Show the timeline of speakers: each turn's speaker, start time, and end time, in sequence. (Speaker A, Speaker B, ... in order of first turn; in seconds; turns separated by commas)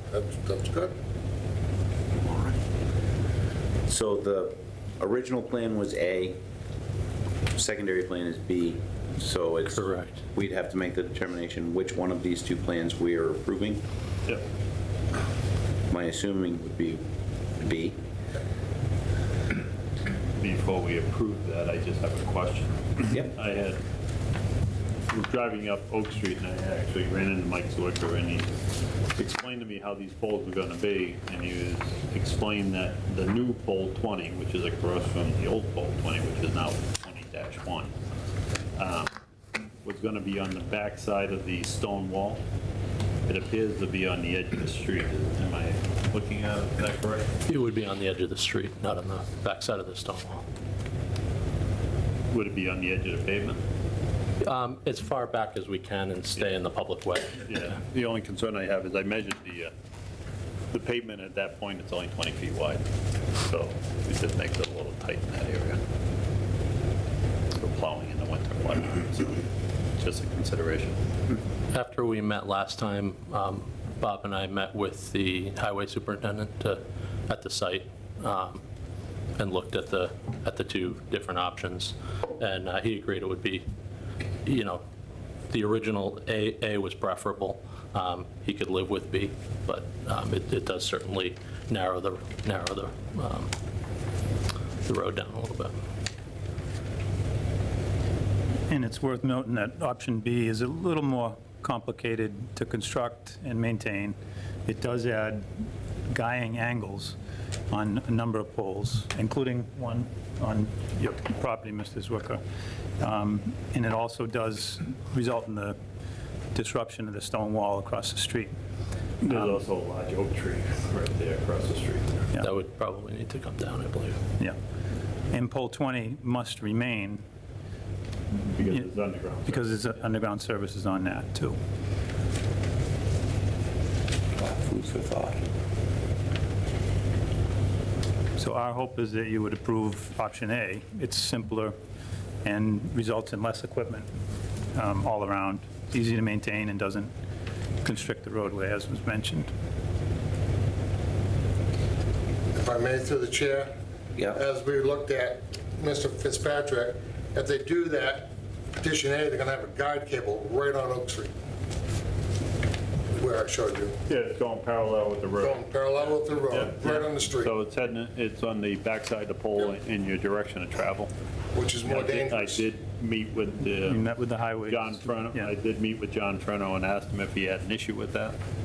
Speaker A: 0.1-0.9, Speaker B: 2.2-2.6, Speaker B: 3.9-6.4, Speaker B: 7.5-13.8, Speaker C: 9.7-10.2, Speaker B: 15.9-17.0, Speaker B: 17.6-18.0, Speaker D: 20.4-23.8, Speaker D: 25.1-28.5, Speaker D: 29.2-37.9, Speaker D: 38.8-39.1, Speaker D: 39.8-42.4, Speaker D: 43.3-47.3, Speaker C: 47.5-50.5, Speaker D: 52.3-53.6, Speaker C: 54.4-57.7, Speaker D: 57.5-59.7, Speaker D: 60.7-62.8, Speaker D: 63.4-65.8, Speaker D: 67.6-69.4, Speaker D: 70.0-71.0, Speaker C: 71.7-78.6, Speaker C: 79.4-83.7, Speaker C: 84.5-84.8, Speaker C: 85.5-93.5, Speaker C: 94.8-95.8, Speaker E: 98.7-105.5, Speaker E: 106.1-107.2, Speaker E: 107.7-112.4, Speaker E: 113.0-115.8, Speaker E: 116.5-118.5, Speaker E: 119.2-119.6, Speaker D: 119.2-122.3, Speaker C: 122.4-124.2, Speaker E: 125.3-127.2, Speaker D: 128.5-130.0, Speaker E: 129.4-131.6, Speaker B: 134.4-135.4, Speaker E: 138.4-141.7, Speaker E: 142.4-144.1, Speaker E: 144.7-147.1, Speaker E: 147.8-149.5, Speaker A: 152.6-153.7, Speaker A: 154.3-161.3, Speaker A: 163.2-164.0, Speaker D: 164.1-171.1, Speaker A: 165.4-167.5, Speaker A: 171.5-172.7, Speaker D: 171.8-178.4, Speaker E: 173.8-175.5